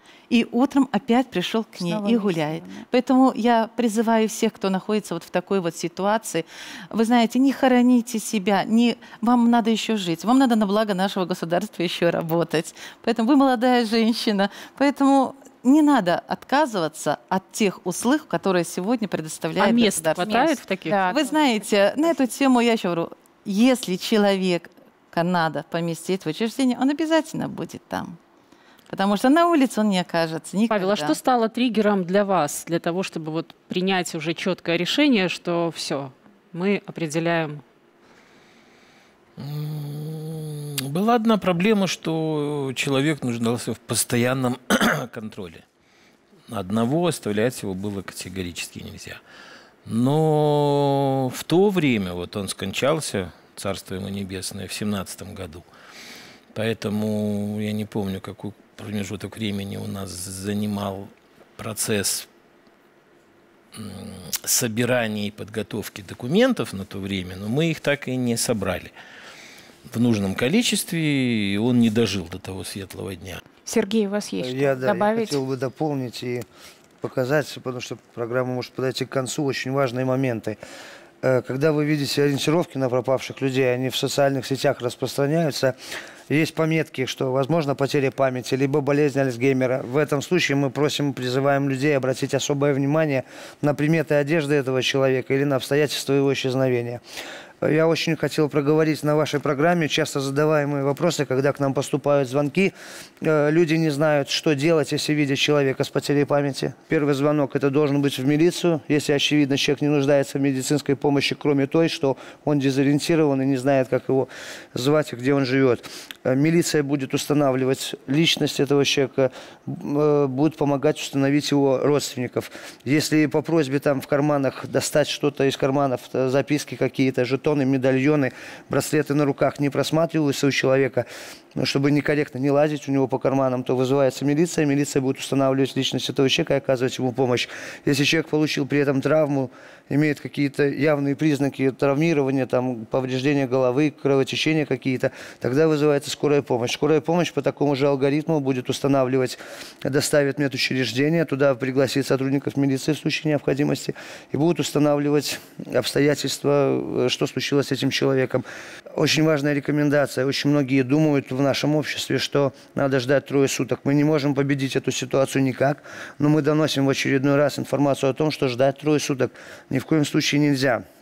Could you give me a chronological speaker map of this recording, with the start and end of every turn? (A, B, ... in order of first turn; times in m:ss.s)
0:00.3-0:28.2 A
0:01.8-0:02.8 B
0:19.6-0:21.1 C
0:20.2-0:21.4 B
0:28.9-0:31.2 A
0:30.7-0:37.6 C
0:39.4-0:45.6 D
0:46.5-0:49.2 D
0:49.9-0:55.7 D
0:56.5-1:02.3 D
1:03.8-1:08.9 D
1:09.9-1:13.4 D
1:13.7-1:15.4 B
1:14.4-1:16.4 E
1:17.0-1:20.6 E
1:21.2-1:25.8 E
1:26.3-1:37.0 E
1:37.6-2:38.4 E
2:39.0-2:50.8 E